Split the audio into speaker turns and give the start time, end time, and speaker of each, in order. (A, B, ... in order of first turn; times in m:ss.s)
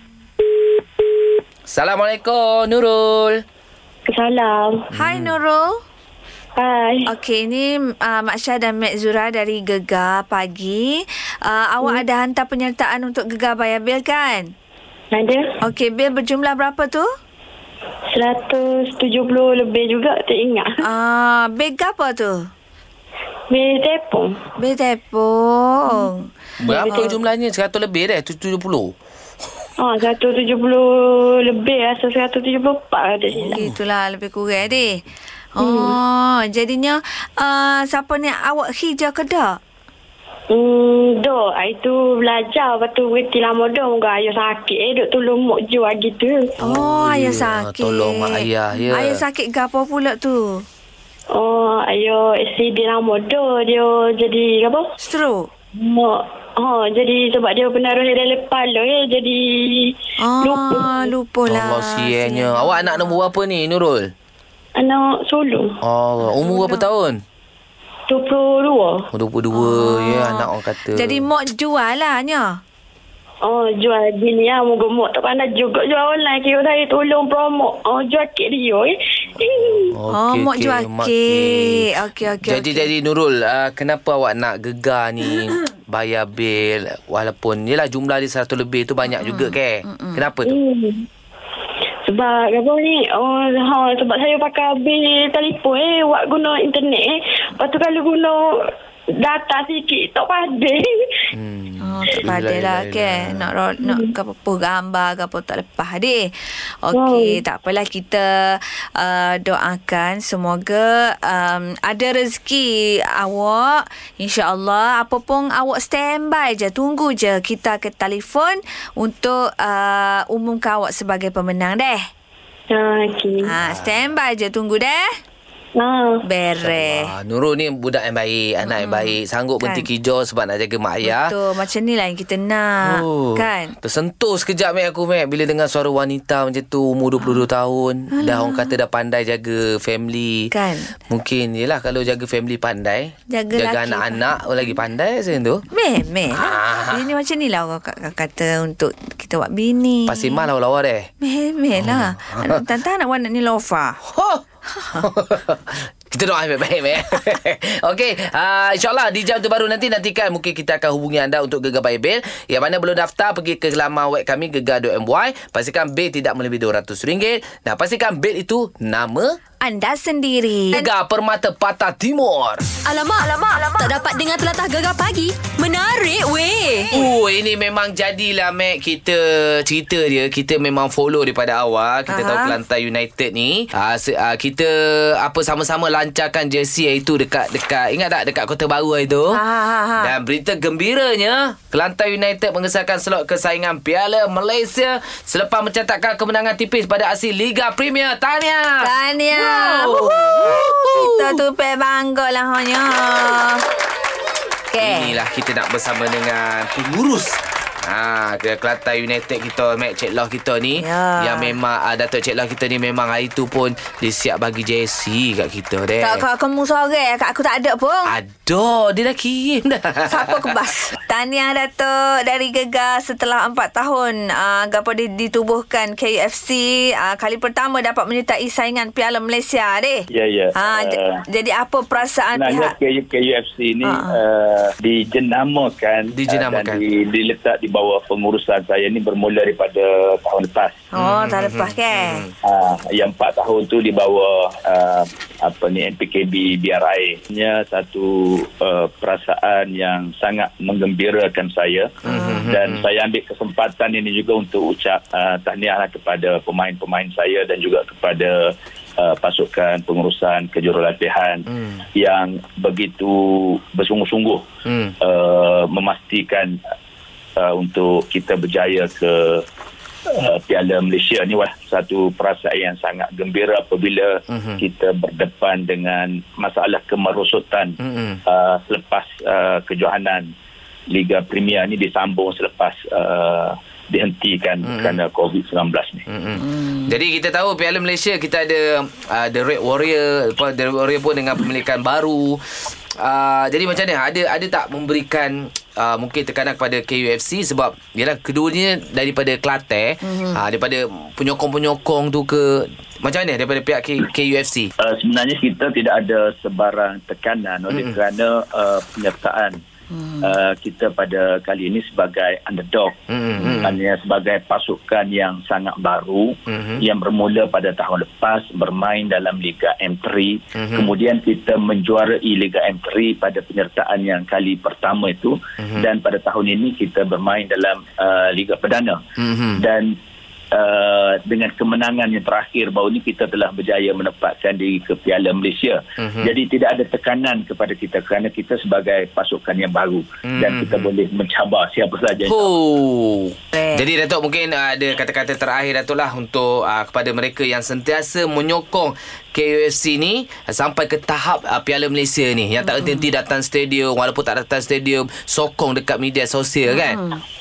0:01.7-0:03.4 A
0:04.1-0:04.9 B
0:04.9-0:05.8 C
0:05.0-0:05.3 A
0:06.6-0:07.1 B
0:07.1-0:14.5 C
0:15.1-0:15.6 B
0:15.6-0:17.1 C
0:18.1-0:20.8 B
0:20.8-0:22.5 C
0:23.5-0:24.4 B
0:24.6-0:27.2 C
0:26.6-0:29.0 A
0:29.8-0:33.7 B
0:33.5-0:35.0 C
0:35.6-0:39.6 C
0:35.6-0:36.0 B
0:40.5-0:46.6 B
0:46.6-0:50.6 C
0:46.6-0:49.2 A
0:51.3-0:54.9 B
0:55.0-0:55.5 C
0:55.8-1:01.0 B
1:00.2-1:03.2 C
1:01.5-1:04.1 A
1:04.8-1:05.8 B
1:05.8-1:07.2 A
1:06.4-1:06.8 C
1:08.1-1:09.1 B
1:09.1-1:11.3 A
1:09.5-1:12.6 C
1:13.4-1:19.9 B
1:19.9-1:21.9 A
1:20.1-1:22.9 C
1:22.4-1:30.6 A
1:29.2-1:30.2 C
1:30.5-1:31.1 B
1:32.0-1:41.1 B
1:41.3-1:43.5 A
1:41.8-1:46.3 C
1:43.8-1:44.1 B
1:46.8-2:02.0 C
1:46.9-1:47.4 B
2:02.7-2:03.5 B
2:03.4-2:05.1 C
2:03.6-2:04.1 A
2:05.8-2:06.2 B
2:06.2-2:07.1 C
2:06.6-2:11.4 A
2:08.6-2:09.9 C
2:11.0-2:13.8 C
2:12.8-2:20.5 A
2:18.1-2:18.7 C
2:20.5-2:20.9 C
2:21.1-2:25.6 A
2:23.3-2:24.2 C
2:25.7-2:30.5 C
2:26.3-2:27.0 A
2:30.1-2:31.1 A
2:31.2-2:34.0 C
2:31.8-2:32.6 A
2:34.0-2:49.4 A
2:34.8-2:35.1 C
2:49.6-2:50.9 C
2:50.7-2:52.7 A
2:52.8-2:57.0 D
2:56.9-3:09.4 A
3:02.1-3:02.6 C
3:09.3-3:10.1 C
3:10.0-3:21.4 A
3:18.8-3:23.6 C
3:24.7-3:25.2 C
3:24.8-3:36.2 A
3:30.8-3:31.6 C
3:36.0-3:38.1 C
3:38.1-3:40.7 A
3:40.1-3:52.7 C
3:50.1-3:51.2 E
3:52.4-4:00.8 E
3:53.8-3:54.2 C
3:56.1-3:56.8 A
4:00.9-4:02.2 C
4:01.0-4:02.3 A
4:02.4-4:24.5 E
4:12.0-4:12.8 A
4:12.1-4:12.5 C
4:21.5-4:21.8 A
4:24.6-4:25.0 A
4:25.0-4:26.6 E
4:27.4-4:29.4 E
4:30.1-4:40.3 E
4:34.3-4:34.6 A
4:37.8-4:38.2 A
4:40.9-4:46.0 E
4:44.6-4:45.0 A
4:46.1-4:52.4 A
4:53.0-5:04.7 A
5:00.0-5:00.4 C
5:04.8-5:09.6 E
5:07.7-5:08.0 A
5:09.9-5:10.4 C
5:10.2-5:29.0 E
5:13.1-5:13.8 A
5:16.5-5:16.8 A
5:20.6-5:20.9 A
5:25.6-5:25.9 A
5:29.2-5:29.6 A
5:29.5-5:30.0 E
5:30.5-5:42.5 E
5:36.0-5:36.3 A
5:40.2-5:40.9 A
5:42.3-5:57.0 A
5:43.5-5:43.9 C
5:52.7-5:53.1 C
5:56.7-5:57.2 C